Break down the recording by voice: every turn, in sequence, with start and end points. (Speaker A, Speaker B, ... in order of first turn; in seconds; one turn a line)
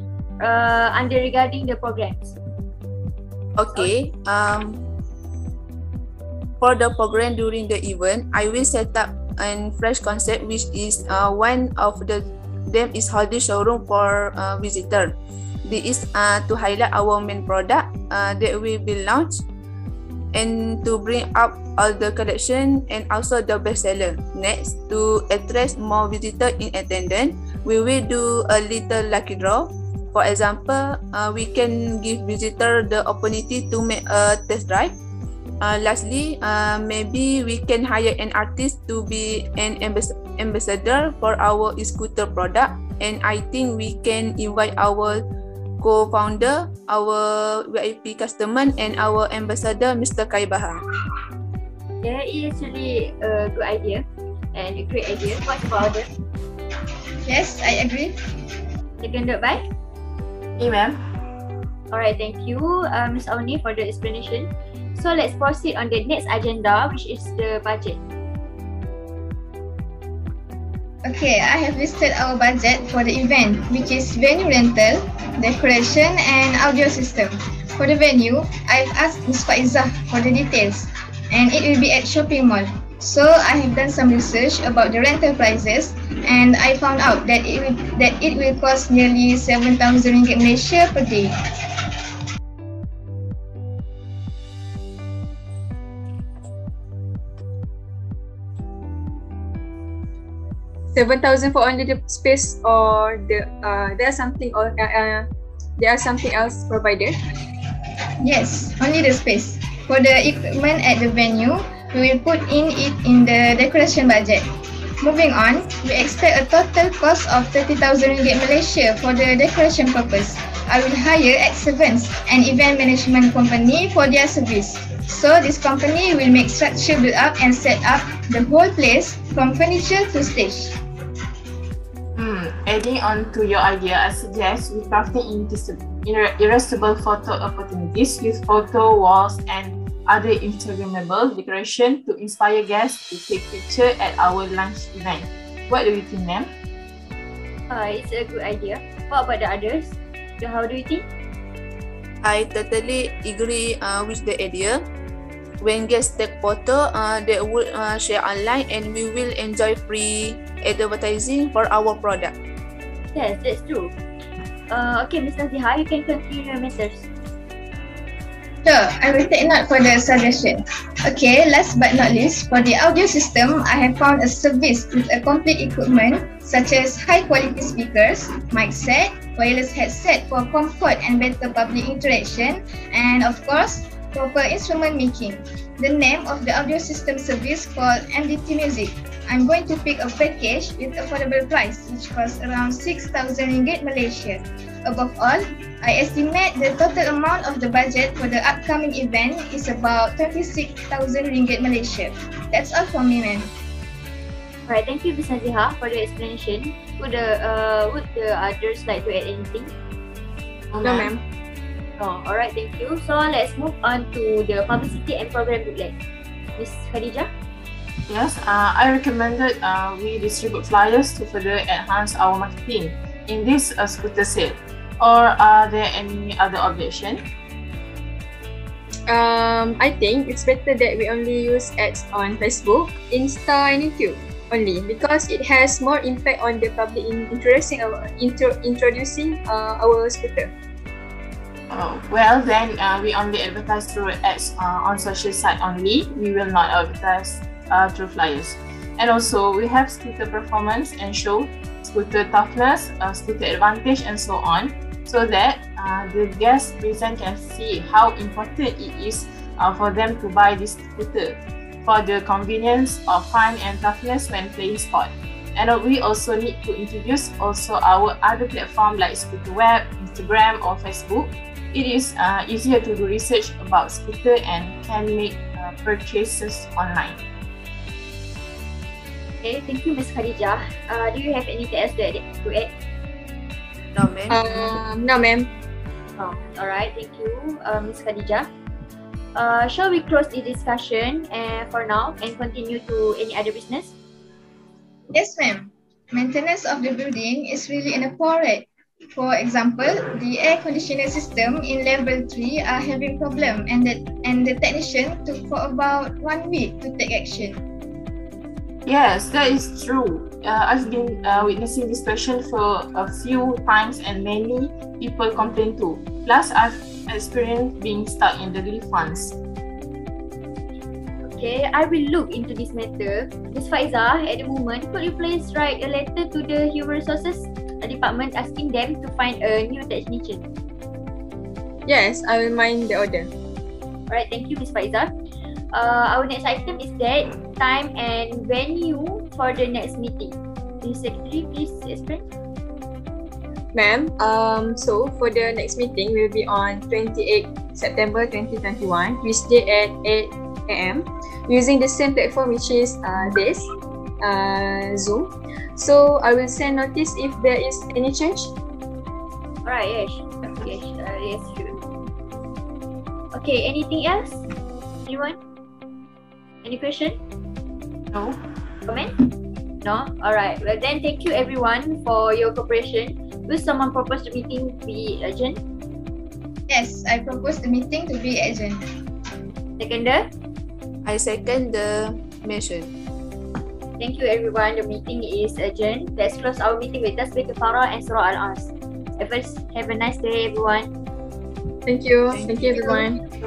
Speaker A: 0.4-2.4
Speaker B: 3.5-4.8
Speaker B: 6.6-19.4
Speaker B: 20.3-34.9
Speaker B: 35.6-45.2
Speaker B: 45.8-50.8
Speaker A: 52.0-56.1
Speaker C: 57.3-58.1
Speaker A: 59.0-59.6
Speaker D: 60.6-61.0
Speaker A: 61.9-68.0
Speaker C: 71.0-91.3
Speaker E: 100.9-105.3
Speaker E: 105.8-107.1
Speaker C: 108.2-114.4
Speaker C: 115.0-130.7
Speaker D: 132.2-146.5
Speaker A: 147.7-151.1
Speaker B: 152.2-154.8
Speaker B: 155.6-162.3
Speaker A: 163.1-163.9
Speaker A: 164.7-167.1
Speaker C: 168.6-203.5
Speaker A: 204.7-209.7
Speaker D: 210.7-211.1
Speaker E: 210.8-211.2
Speaker A: 212.0-215.9
Speaker A: 216.6-217.3
Speaker D: 218.1-227.3
Speaker E: 229.1-240.5
Speaker D: 241.7-277.2
Speaker A: 279.4-282.7
Speaker B: 283.9-284.8
Speaker E: 284.3-285.5
Speaker A: 286.2-288.5
Speaker A: 289.3-293.9
Speaker C: 295.1-307.6
Speaker D: 308.9-319.4
Speaker A: 321.2-330.4
Speaker E: 331.9-333.3
Speaker A: 334.1-335.1
Speaker A: 335.7-342.3
Speaker E: 343.7-353.7
Speaker E: 354.2-358.5
Speaker A: 359.6-361.8
Speaker A: 363.3-364.4
Speaker A: 365.1-365.4
Speaker A: 366.6-367.1
Speaker D: 368.1-368.4
Speaker A: 368.9-369.1
Speaker A: 369.8-375.6
Speaker C: 376.7-378.8
Speaker A: 379.8-380.3
Speaker B: 381.0-382.9
Speaker A: 384.0-390.9
Speaker E: 391.9-393.2
Speaker B: 392.3-393.0